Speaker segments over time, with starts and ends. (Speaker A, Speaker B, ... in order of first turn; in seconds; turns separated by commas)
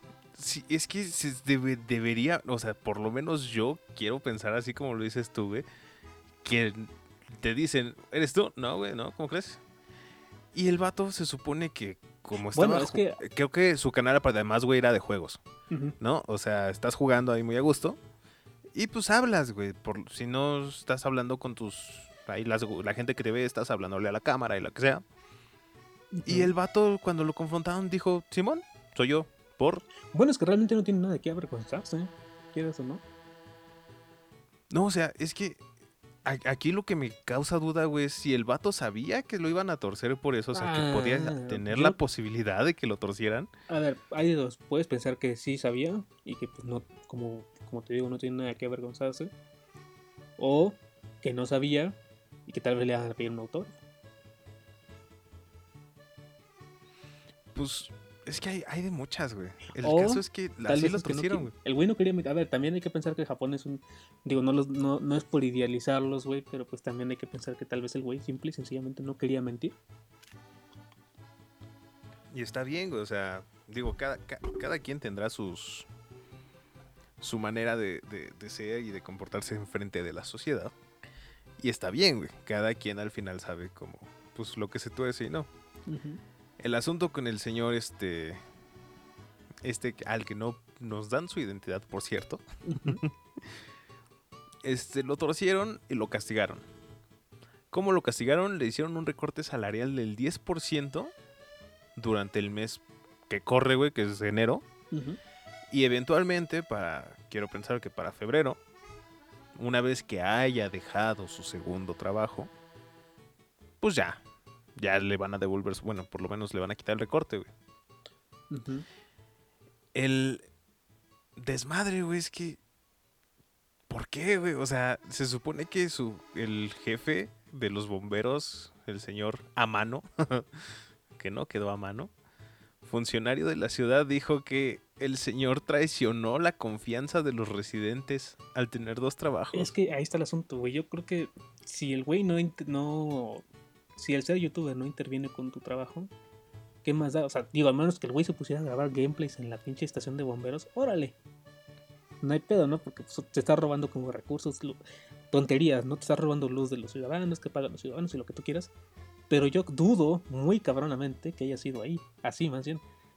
Speaker A: 0.3-5.7, Speaker A: 6.4-9.6, Speaker A: 10.5-15.4, Speaker B: 12.5-13.2, Speaker B: 15.7-15.9, Speaker A: 16.0-18.0, Speaker A: 18.7-25.0, Speaker B: 26.1-26.5, Speaker A: 26.2-29.8, Speaker B: 30.1-33.0, Speaker A: 34.7-35.6, Speaker A: 36.2-43.5, Speaker B: 40.5-42.0, Speaker B: 43.7-49.3, Speaker B: 50.4-53.7, Speaker A: 57.5-61.5, Speaker B: 59.8-69.8, Speaker A: 72.3-75.9, Speaker A: 77.2-80.7, Speaker A: 81.6-85.5, Speaker B: 85.9-86.2, Speaker A: 86.6-88.4, Speaker A: 89.6-93.5, Speaker B: 92.6-93.0, Speaker A: 94.6-96.6, Speaker A: 97.7-101.1, Speaker A: 102.0-104.6, Speaker B: 104.9-105.2, Speaker A: 105.7-108.6, Speaker A: 109.5-112.5, Speaker A: 113.8-114.2, Speaker A: 114.8-117.5, Speaker B: 118.5-118.8, Speaker A: 119.9-120.5, Speaker A: 121.3-122.6, Speaker A: 123.9-130.5, Speaker A: 131.2-132.1, Speaker A: 132.8-139.7, Speaker B: 139.5-143.4, Speaker B: 144.0-146.1, Speaker B: 146.8-151.2, Speaker B: 152.2-158.7, Speaker B: 159.3-162.8